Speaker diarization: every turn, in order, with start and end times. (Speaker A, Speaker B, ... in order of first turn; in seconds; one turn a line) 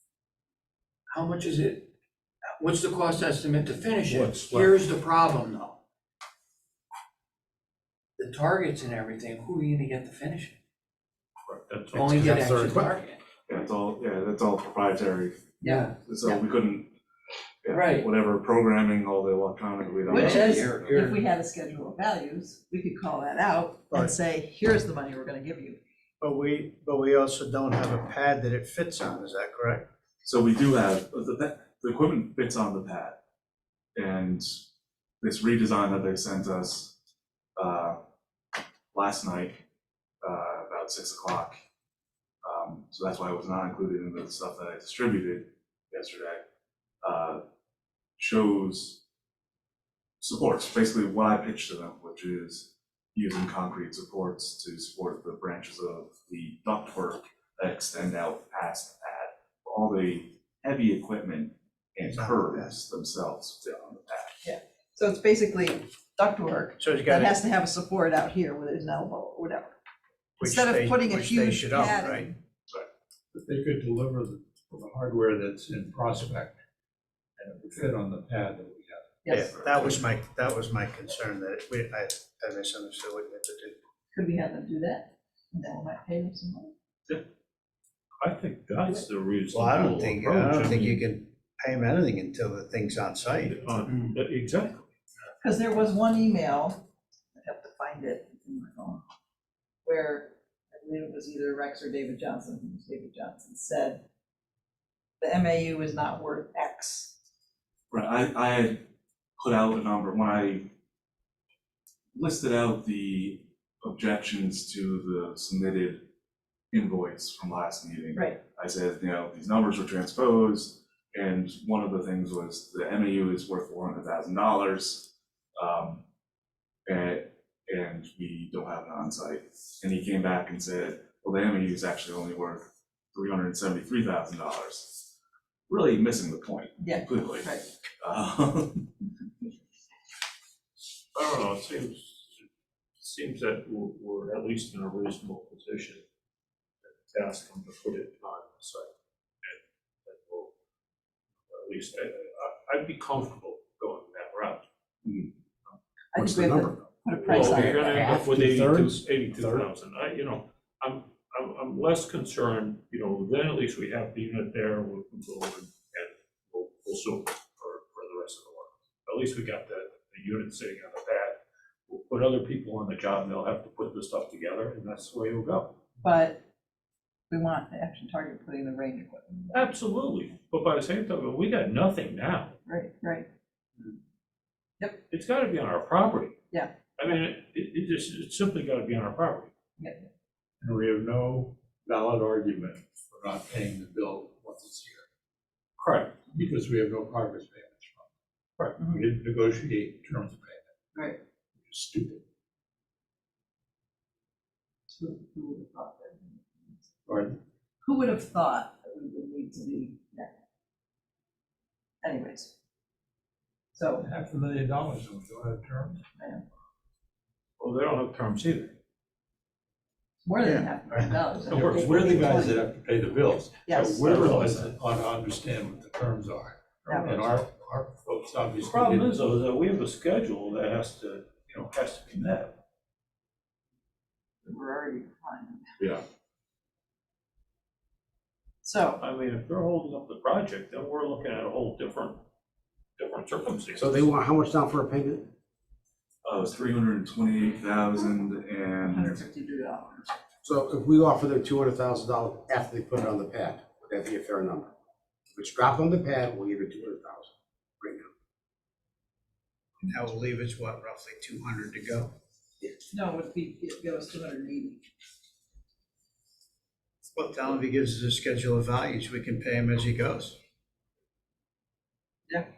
Speaker A: 1.1-1.9
Speaker A: 2.6-5.8
Speaker B: 4.1-4.7
Speaker A: 8.2-10.6
Speaker B: 11.5-12.7
Speaker A: 11.9-13.2
Speaker C: 12.2-12.9
Speaker D: 13.5-16.9
Speaker E: 15.6-16.4
Speaker A: 15.6-16.0
Speaker D: 17.6-21.1
Speaker A: 17.7-18.1
Speaker E: 20.1-25.8
Speaker A: 20.1-21.2
Speaker F: 26.2-29.9
Speaker D: 30.2-33.2
Speaker D: 34.0-34.6
Speaker D: 35.2-37.0
Speaker D: 37.6-38.0
Speaker D: 38.9-39.6
Speaker D: 40.2-41.6
Speaker D: 42.4-46.5
Speaker D: 47.0-47.4
Speaker D: 48.2-49.0
Speaker D: 50.2-64.3
Speaker F: 62.1-62.7
Speaker E: 64.4-69.8
Speaker F: 66.8-67.4
Speaker F: 70.4-72.3
Speaker E: 70.4-72.4
Speaker G: 73.3-76.6
Speaker G: 77.4-79.2
Speaker E: 79.2-79.6
Speaker F: 79.3-83.8
Speaker E: 84.1-86.7
Speaker B: 88.2-91.0
Speaker F: 89.5-93.6
Speaker B: 93.4-94.9
Speaker A: 93.9-94.2
Speaker E: 95.4-96.8
Speaker E: 97.3-99.0
Speaker E: 99.8-104.0
Speaker E: 105.2-107.2
Speaker D: 107.9-108.8
Speaker D: 109.4-110.7
Speaker D: 112.1-116.0
Speaker D: 116.7-126.0
Speaker E: 118.1-118.4
Speaker D: 126.9-135.1
Speaker D: 135.7-138.9
Speaker E: 136.8-137.7
Speaker B: 141.1-142.5
Speaker B: 143.0-146.0
Speaker B: 146.8-148.9
Speaker B: 149.4-150.5
Speaker B: 151.5-154.7
Speaker E: 156.1-158.1
Speaker C: 156.2-156.8
Speaker B: 157.2-175.8
Speaker C: 157.4-158.9
Speaker E: 176.0-176.4
Speaker E: 177.3-179.7
Speaker B: 179.5-182.6
Speaker E: 182.7-183.3
Speaker B: 185.1-186.4
Speaker B: 187.0-189.5
Speaker E: 189.8-190.1
Speaker G: 190.6-195.1
Speaker B: 195.8-196.2
Speaker G: 196.3-198.1
Speaker G: 198.8-200.7
Speaker E: 200.9-201.2
Speaker G: 201.6-202.2
Speaker E: 204.9-206.9
Speaker G: 207.1-207.4
Speaker E: 207.8-210.3
Speaker E: 212.0-212.5
Speaker E: 213.7-214.1
Speaker G: 214.0-216.0
Speaker E: 216.2-216.4
Speaker B: 217.6-218.8
Speaker E: 220.2-222.7
Speaker F: 220.4-221.0
Speaker B: 221.5-222.4
Speaker G: 221.5-229.2
Speaker E: 223.7-224.3
Speaker B: 224.1-224.6
Speaker E: 226.9-227.2
Speaker B: 228.6-232.6
Speaker E: 234.4-235.7
Speaker E: 238.6-239.0
Speaker B: 239.0-242.2
Speaker B: 243.0-244.1
Speaker C: 243.8-245.3
Speaker D: 246.2-249.2
Speaker E: 248.8-250.2
Speaker C: 250.4-254.7
Speaker C: 255.3-258.1
Speaker F: 259.8-262.1
Speaker E: 262.9-264.9
Speaker F: 267.1-270.4